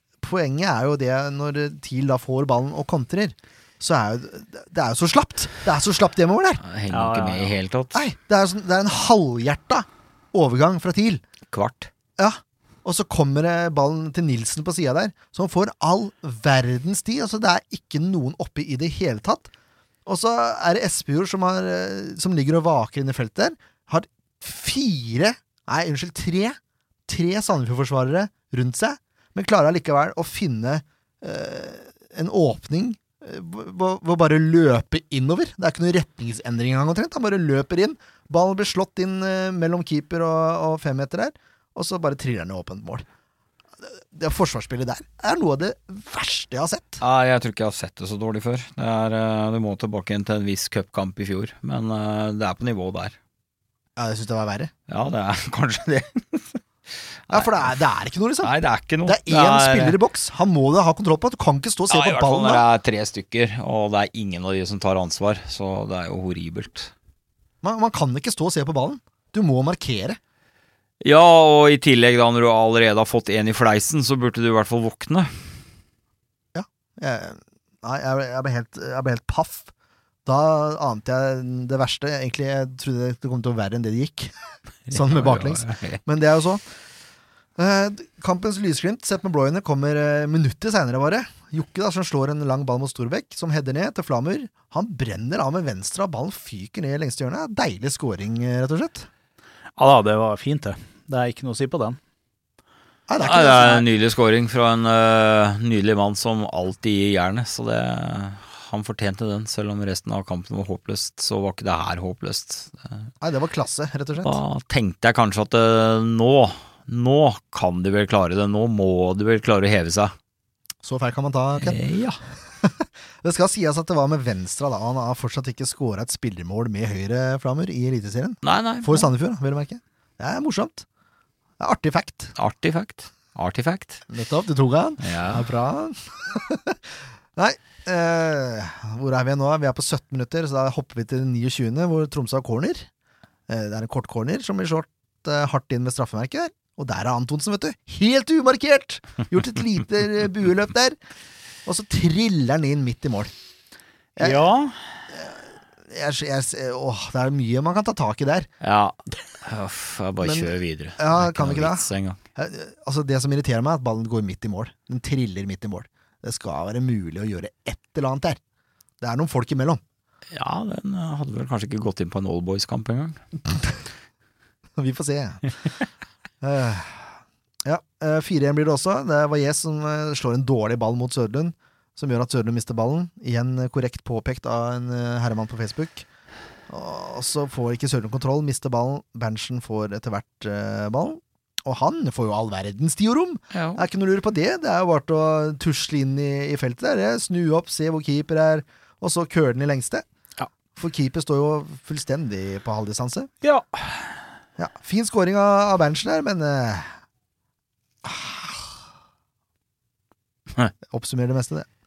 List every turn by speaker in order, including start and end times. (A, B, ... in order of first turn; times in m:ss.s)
0:00.2-0:06.6 A
0:06.6-0:08.0 B
0:06.9-0:07.5 C
0:07.9-0:11.2 A
0:11.5-0:11.9 B
0:12.2-0:19.5 A
0:20.0-0:43.0 A
0:43.8-0:47.0 A
0:47.0-0:53.2 B
0:54.0-0:54.7 A
0:54.9-0:56.6 B
0:57.3-0:57.7 B
0:57.3-0:58.5 A
0:58.4-1:00.0 B
0:59.0-1:02.6 A
1:01.9-1:06.9 B
1:07.6-1:10.2 A
1:11.0-1:15.3 B
1:16.5-1:19.7 A
1:20.2-1:24.3 A
1:24.9-1:26.6 A
1:24.9-1:26.0 B
1:27.6-1:39.1 A
1:39.8-1:42.0 C
1:43.1-1:43.8 A
1:43.2-1:53.0 B
1:53.2-1:54.4 A
1:54.2-2:00.1 B
2:00.8-2:01.8 A
2:01.6-2:02.2 B
2:02.6-2:10.8 A
2:08.4-2:09.1 B
2:11.6-2:12.3 A
2:12.4-2:14.0 B
2:14.1-2:16.8 A
2:15.0-2:15.4 B
2:17.4-2:22.9 A
2:23.5-2:31.0 A
2:31.6-2:33.3 A
2:34.2-2:35.0 C
2:35.1-2:38.5 A
2:38.6-2:42.2 B
2:40.2-2:48.4 A
2:49.0-2:49.8 A
2:50.3-2:53.2 B
2:54.8-2:55.5 A
2:56.4-2:57.1 A
2:57.6-3:06.0 A
3:06.7-3:20.0 A
3:13.5-3:13.8 B
3:20.8-3:23.3 A
3:23.4-3:24.1 C
3:24.6-3:26.9 A
3:28.0-3:28.7 A
3:30.9-3:31.7 A